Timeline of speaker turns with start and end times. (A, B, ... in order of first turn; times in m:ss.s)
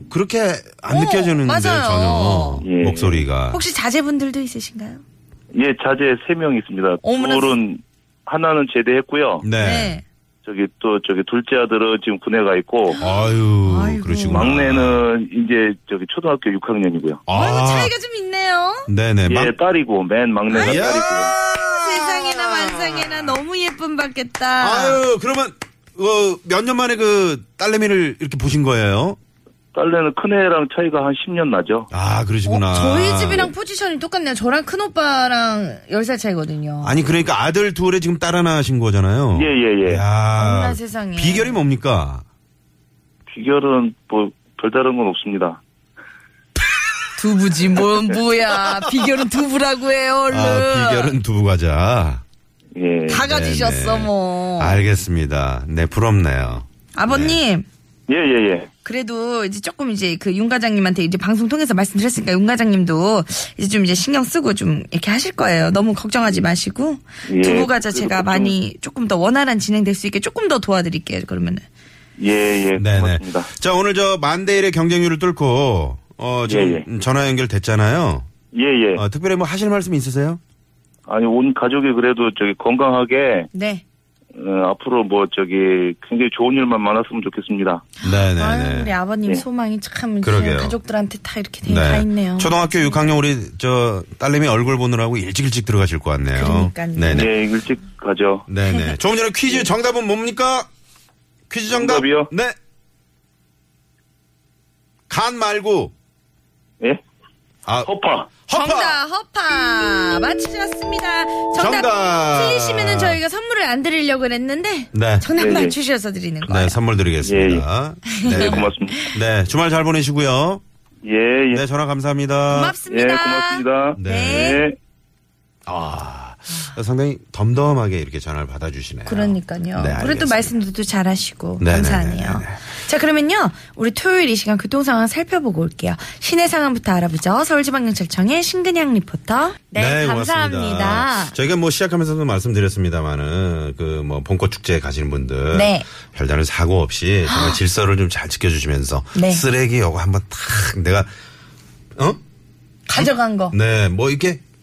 0:00.1-0:03.6 A
0:00.9-0:02.7 B
0:02.6-0:03.2 C
0:03.5-0:05.0 B
0:05.5-0:09.5 C
0:07.0-0:07.6 B
0:09.4-0:10.0 A
0:09.5-0:10.0 B
0:10.4-0:13.0 C
0:13.0-0:15.0 A
0:13.0-0:14.5 B
0:14.3-0:17.2 C
0:17.3-0:17.9 A
0:17.3-0:18.9 B
0:18.9-0:19.6 A
0:19.2-0:21.4 C
0:20.5-0:25.0 B
0:20.5-0:23.4 A
0:24.6-0:29.2 A
0:29.7-0:31.9 C
0:31.9-0:33.5 A
0:32.4-0:37.0 B
0:36.8-0:42.2 A
0:39.3-0:40.0 C
0:40.4-0:41.6 B
0:43.3-0:45.6 C
0:47.2-0:51.2 B
0:50.3-0:52.2 A
0:52.8-0:53.2 C
0:53.1-0:54.8 B
0:53.1-0:57.4 A
0:57.0-0:57.7 B
0:58.1-0:58.7 C
0:58.8-1:11.7 B
1:07.3-1:08.6 C
1:12.2-1:13.5 C
1:12.8-1:18.3 A
1:16.5-1:16.9 C
1:18.5-1:19.0 C
1:19.0-1:20.4 A
1:21.1-1:23.5 C
1:23.5-1:23.8 B
1:24.4-1:27.8 C
1:28.0-1:28.9 A
1:28.1-1:33.0 B
1:30.2-1:30.8 A
1:31.6-1:37.3 A
1:36.3-1:37.3 B
1:37.1-1:38.5 C
1:38.5-1:40.7 A
1:38.7-1:39.0 B
1:41.5-1:42.6 A
1:41.7-1:42.3 C
1:45.1-1:45.9 A
1:47.8-1:48.3 C
1:48.5-1:49.0 A
1:48.5-1:56.8 B
1:51.6-1:53.2 A
1:54.9-1:55.3 A
1:55.4-1:55.8 C
1:56.4-2:00.6 A
1:57.2-1:57.6 C
1:58.1-1:59.2 B
1:58.2-1:59.0 C
2:01.0-2:01.6 C
2:01.5-2:02.8 A
2:02.5-2:04.7 B
2:02.8-2:04.8 C
2:04.0-2:04.6 A
2:05.7-2:10.6 A
2:09.1-2:21.4 B
2:11.6-2:12.6 A
2:19.8-2:31.1 A
2:25.5-2:25.9 B
2:27.3-2:27.6 B
2:29.1-2:29.4 B
2:32.9-2:33.6 B
2:33.0-2:34.4 A